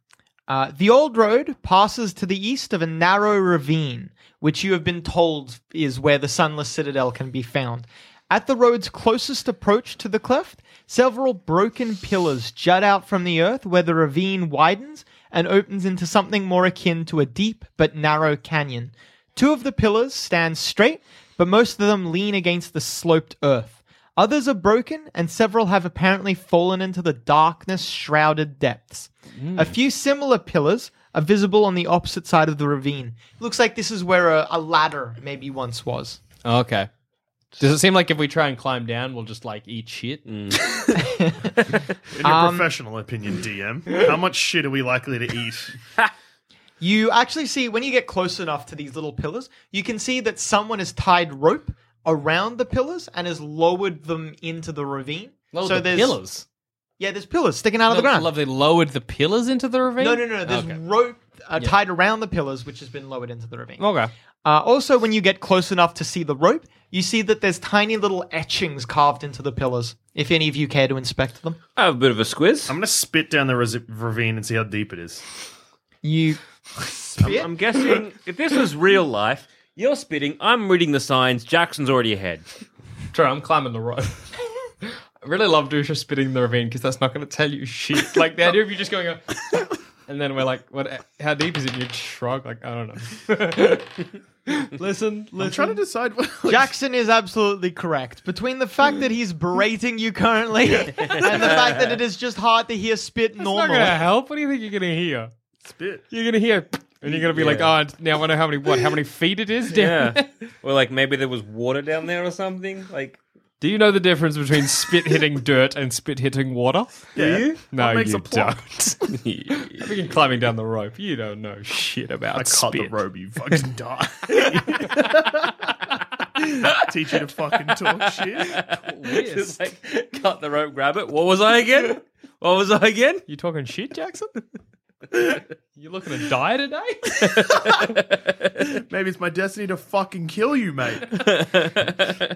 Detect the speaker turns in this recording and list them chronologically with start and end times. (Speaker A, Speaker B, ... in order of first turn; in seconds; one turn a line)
Speaker A: 0.5-36.2
Speaker B: 29.4-29.7
Speaker B: 36.4-36.9
Speaker B: 37.6-40.3
Speaker C: 40.3-41.0
Speaker A: 41.0-41.5
Speaker D: 42.1-45.8
Speaker A: 42.2-42.7
Speaker A: 46.8-56.2
Speaker B: 55.5-56.5
Speaker A: 57.0-58.3
Speaker B: 57.9-60.8
Speaker A: 60.0-63.8
Speaker B: 63.8-64.1
Speaker A: 64.5-71.6
Speaker C: 71.8-72.8
Speaker D: 72.7-75.2
Speaker A: 76.0-77.5
Speaker C: 77.2-82.5
Speaker B: 83.1-84.3
Speaker B: 84.8-89.5
Speaker B: 90.1-95.8
Speaker D: 95.4-96.7
Speaker A: 96.5-104.1
Speaker C: 101.2-102.0
Speaker B: 103.4-105.3
Speaker D: 105.6-106.0
Speaker B: 106.1-110.4
Speaker C: 107.3-107.7
Speaker C: 109.7-113.2
Speaker B: 113.6-117.1
Speaker D: 117.2-118.8
Speaker C: 117.2-117.6
Speaker B: 117.7-123.0
Speaker C: 119.1-119.8
Speaker D: 122.3-125.5
Speaker B: 124.3-125.0
Speaker D: 126.7-128.6
Speaker C: 128.5-133.2
Speaker B: 128.7-129.6
Speaker B: 133.3-134.4
Speaker B: 135.8-137.6
Speaker C: 137.2-138.0
Speaker D: 138.8-141.3
Speaker C: 141.4-142.2